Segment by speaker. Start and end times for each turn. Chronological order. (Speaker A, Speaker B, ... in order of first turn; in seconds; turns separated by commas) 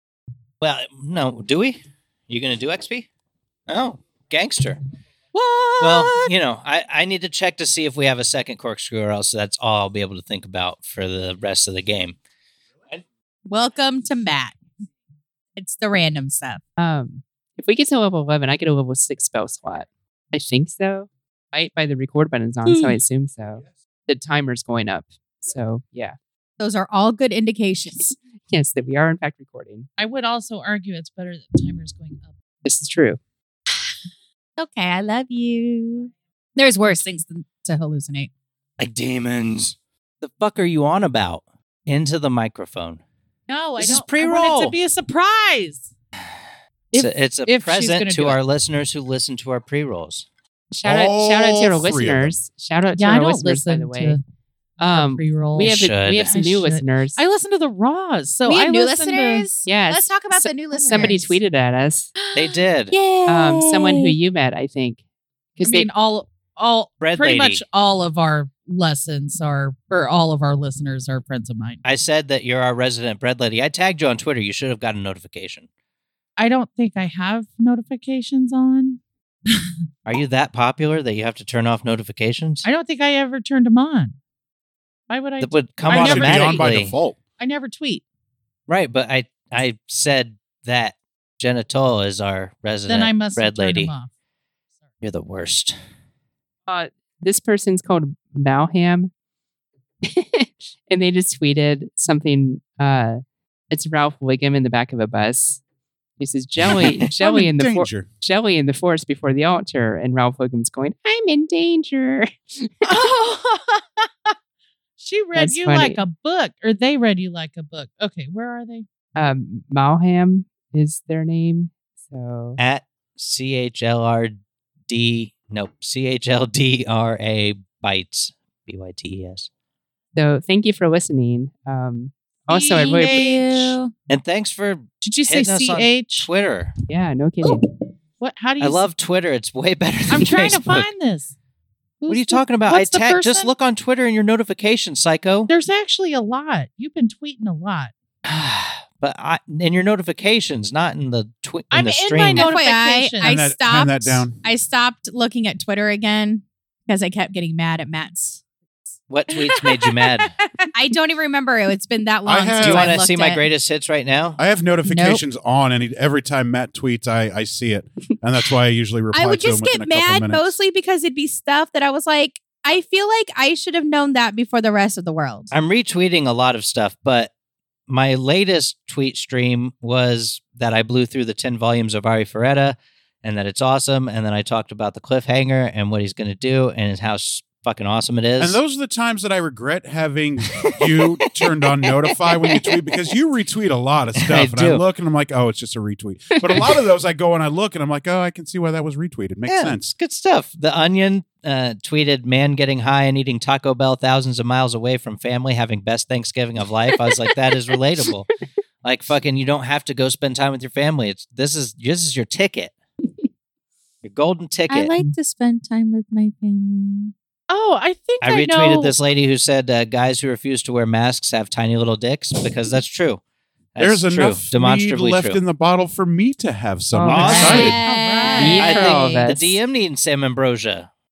Speaker A: 0.6-3.1, Speaker A: 3.7-4.8, Speaker B: 5.3-6.1, Speaker A: 5.8-12.2, Speaker C: 13.4-14.6, Speaker C: 15.6-16.6, Speaker D: 16.8-26.1, Speaker B: 22.6-23.0, Speaker C: 26.6-28.1, Speaker D: 28.5-29.9, Speaker B: 30.0-32.3, Speaker D: 32.6-33.2, Speaker C: 34.6-38.3, Speaker A: 38.8-43.0, Speaker B: 43.5-45.9, Speaker A: 43.8-44.8, Speaker B: 46.9-48.4, Speaker A: 46.9-50.2, Speaker D: 50.7-54.2, Speaker E: 50.8-52.4, Speaker B: 52.9-54.2, Speaker D: 54.8-57.2, Speaker B: 54.8-59.5, Speaker A: 55.6-56.3, Speaker C: 58.5-61.4, Speaker D: 59.6-62.1, Speaker C: 62.2-64.1, Speaker A: 62.3-62.9, Speaker D: 63.2-65.0, Speaker D: 65.6-65.9, Speaker B: 65.6-71.8, Speaker A: 67.0-67.6, Speaker A: 71.8-75.7, Speaker B: 76.4-79.7, Speaker A: 80.0-82.7, Speaker B: 82.6-84.1, Speaker B: 85.1-86.6, Speaker A: 85.4-87.0, Speaker E: 85.9-87.2, Speaker B: 87.4-88.0, Speaker A: 88.7-93.9, Speaker B: 92.9-94.1, Speaker A: 95.0-95.8, Speaker D: 96.7-99.1, Speaker D: 100.0-105.6, Speaker D: 106.2-112.7, Speaker E: 106.6-108.1, Speaker B: 112.8-114.3, Speaker B: 115.0-118.9, Speaker D: 115.3-116.0, Speaker D: 119.2-122.6, Speaker A: 122.6-129.5, Speaker D: 130.1-133.8, Speaker B: 132.5-133.6, Speaker C: 132.9-133.9, Speaker A: 134.1-136.7, Speaker B: 135.0-136.3, Speaker D: 136.9-137.6, Speaker B: 138.2-138.9, Speaker A: 138.6-140.9, Speaker B: 140.1-141.3, Speaker B: 142.0-143.5, Speaker A: 142.1-145.5, Speaker B: 145.5-147.9, Speaker A: 148.2-152.5, Speaker B: 151.7-153.4, Speaker C: 152.3-158.4, Speaker E: 153.2-154.4, Speaker A: 159.1-160.3, Speaker C: 159.3-163.4, Speaker E: 162.2-163.0, Speaker A: 162.6-164.4, Speaker E: 164.4-170.6, Speaker C: 164.8-165.2, Speaker C: 169.1-175.5, Speaker A: 175.5-177.3, Speaker A: 177.9-188.6, Speaker E: 188.4-199.8, Speaker A: 192.0-192.6, Speaker A: 194.2-194.8, Speaker A: 199.5-208.3, Speaker A: 208.8-212.7, Speaker A: 214.0-214.9, Speaker C: 214.7-217.1, Speaker B: 217.5-218.9, Speaker A: 218.2-223.2, Speaker A: 223.7-225.4, Speaker E: 223.8-227.8, Speaker D: 226.9-227.8, Speaker A: 227.1-227.8, Speaker C: 227.2-229.3, Speaker B: 227.8-228.7, Speaker D: 228.3-229.6, Speaker A: 228.5-230.9